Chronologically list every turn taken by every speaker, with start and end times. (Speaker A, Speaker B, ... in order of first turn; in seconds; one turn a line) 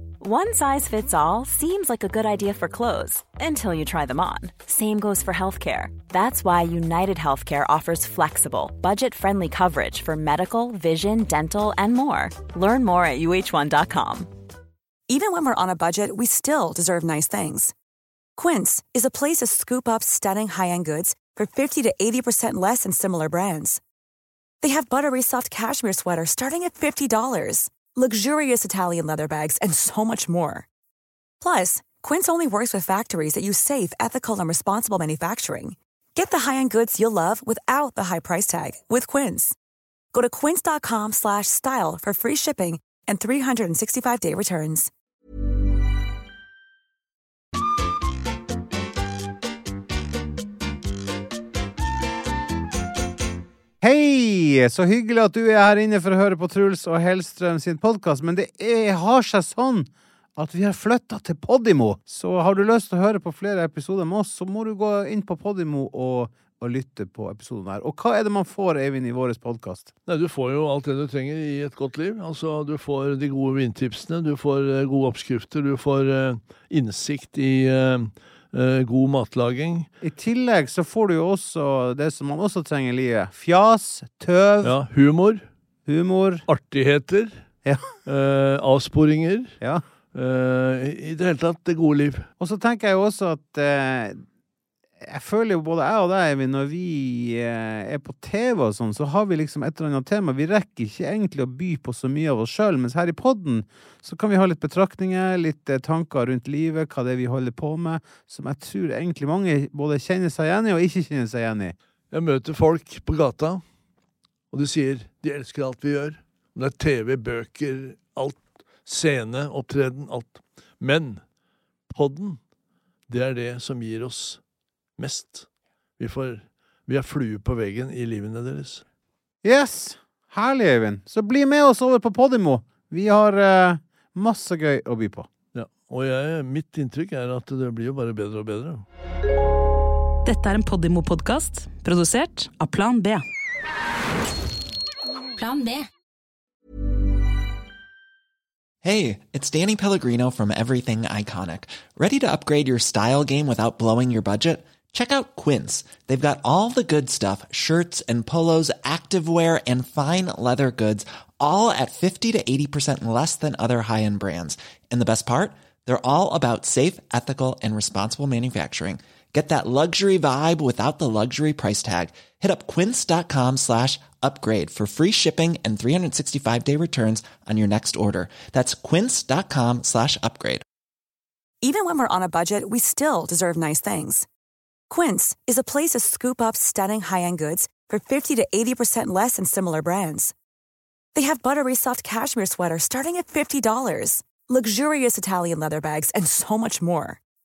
Speaker A: 0.2-14.3
Speaker B: 15.1-17.7
Speaker B: 18.4-23.8
Speaker B: 24.6-30.7
Speaker B: 31.4-39.5
Speaker B: 40.1-44.9
Speaker C: 53.8-69.9
Speaker D: 70.0-79.9
Speaker C: 80.0-84.8
Speaker D: 84.7-85.5
Speaker C: 85.8-86.5
Speaker D: 86.5-87.4
Speaker C: 87.6-87.9
Speaker D: 88.0-89.6
Speaker D: 90.1-92.3
Speaker C: 92.4-94.2
Speaker C: 95.0-111.8
Speaker D: 112.1-113.6
Speaker D: 114.5-121.2
Speaker D: 121.9-122.4
Speaker D: 123.1-124.4
Speaker D: 125.0-125.5
Speaker D: 126.0-128.8
Speaker C: 129.4-135.3
Speaker D: 135.5-138.8
Speaker E: 140.2-143.2
Speaker E: 145.4-145.9
Speaker F: 148.8-180.6
Speaker B: 181.6-184.3
Speaker B: 184.9-190.3
Speaker B: 191.1-197.2